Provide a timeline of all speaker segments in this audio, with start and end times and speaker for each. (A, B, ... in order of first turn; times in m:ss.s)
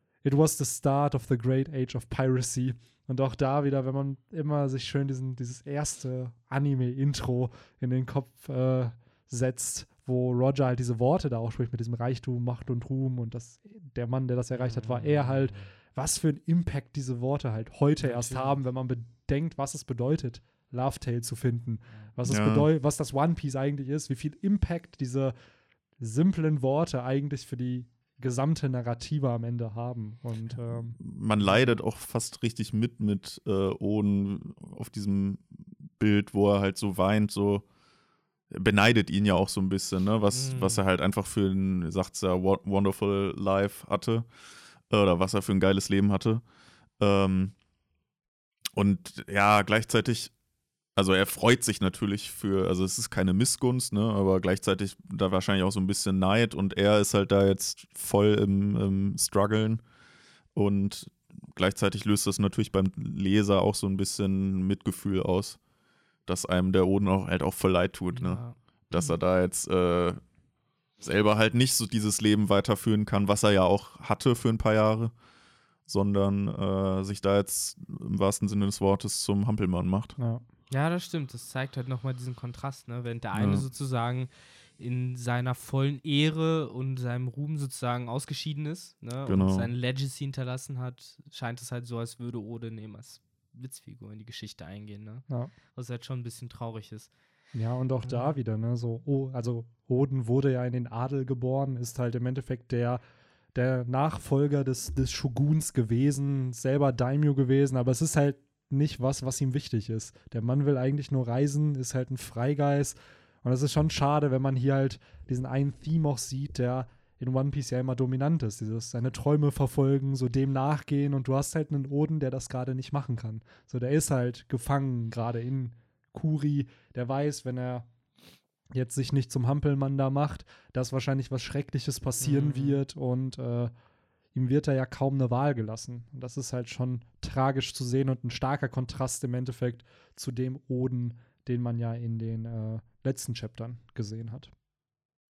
0:00.2-0:25.3 A
0:14.6-0:15.6 B
0:18.0-0:18.5 B
0:22.3-0:22.7 C
0:26.0-0:31.6 A
0:31.0-0:37.6 C
0:38.5-0:44.3 C
0:40.3-0:40.8 B
0:44.9-0:46.4 C
0:47.0-0:47.5 C
0:48.7-0:50.3 C
0:51.0-0:59.8 C
1:00.5-1:05.6 C
1:06.3-1:10.2 C
1:08.1-1:09.1 B
1:11.0-1:15.1 C
1:15.9-1:20.1 C
1:20.2-1:20.4 A
1:20.7-1:37.1 B
1:23.3-1:23.6 C
1:29.2-1:29.7 C
1:37.5-1:43.0 A
1:38.0-1:38.4 B
1:43.5-2:07.9 A
2:08.7-2:13.7 A
2:12.2-2:12.8 B
2:14.3-2:24.5 A